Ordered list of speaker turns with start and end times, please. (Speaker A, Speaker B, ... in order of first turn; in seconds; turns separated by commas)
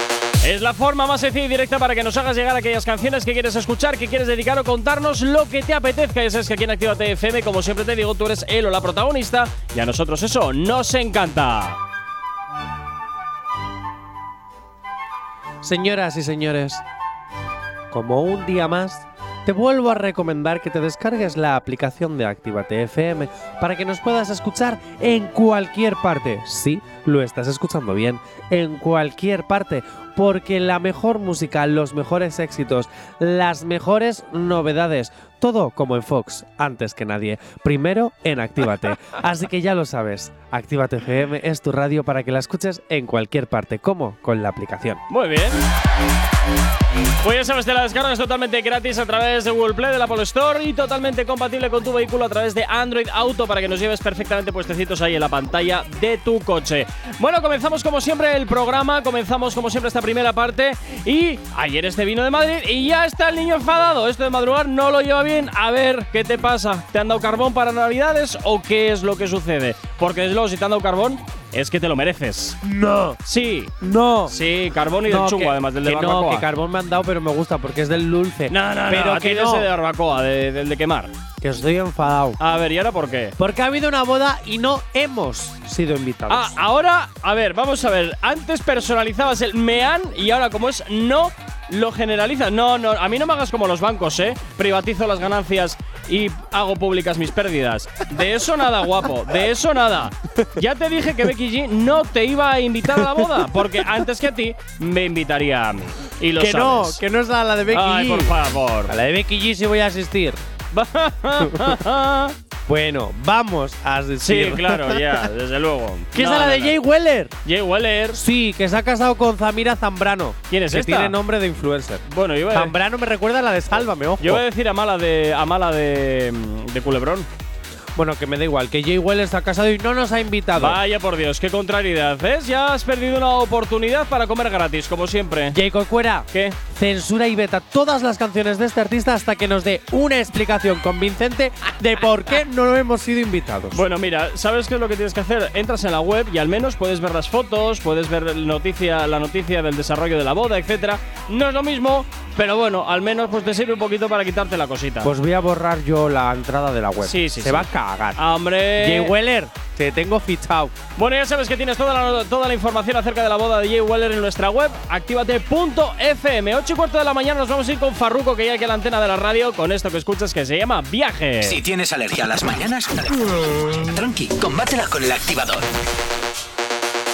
Speaker A: 0.4-11.8, Speaker B: 15.6-16.8, Speaker B: 17.9-45.0, Speaker A: 45.1-45.6, Speaker A: 47.2-72.6, Speaker B: 72.6-73.2, Speaker A: 73.2-73.7, Speaker B: 73.8-74.3, Speaker A: 74.3-76.5, Speaker B: 75.0-79.7, Speaker A: 78.5-81.1, Speaker B: 81.4-82.4, Speaker A: 82.4-83.3, Speaker B: 83.4-86.6, Speaker A: 86.3-107.0, Speaker B: 102.9-103.5, Speaker B: 106.4-108.3, Speaker A: 107.7-108.9, Speaker B: 108.9-110.4, Speaker A: 110.7-112.3, Speaker B: 111.4-111.8, Speaker B: 112.7-115.3, Speaker A: 114.2-116.8, Speaker B: 116.1-117.3, Speaker A: 117.4-118.2, Speaker B: 118.1-124.4, Speaker A: 120.5-121.1, Speaker A: 122.1-122.7, Speaker A: 124.2-127.3, Speaker B: 127.9-130.8, Speaker A: 130.6-135.6, Speaker B: 135.5-143.8, Speaker A: 143.7-155.1, Speaker B: 155.0-158.2, Speaker A: 157.0-159.1, Speaker B: 158.8-160.7, Speaker A: 160.9-171.6, Speaker C: 171.4-175.7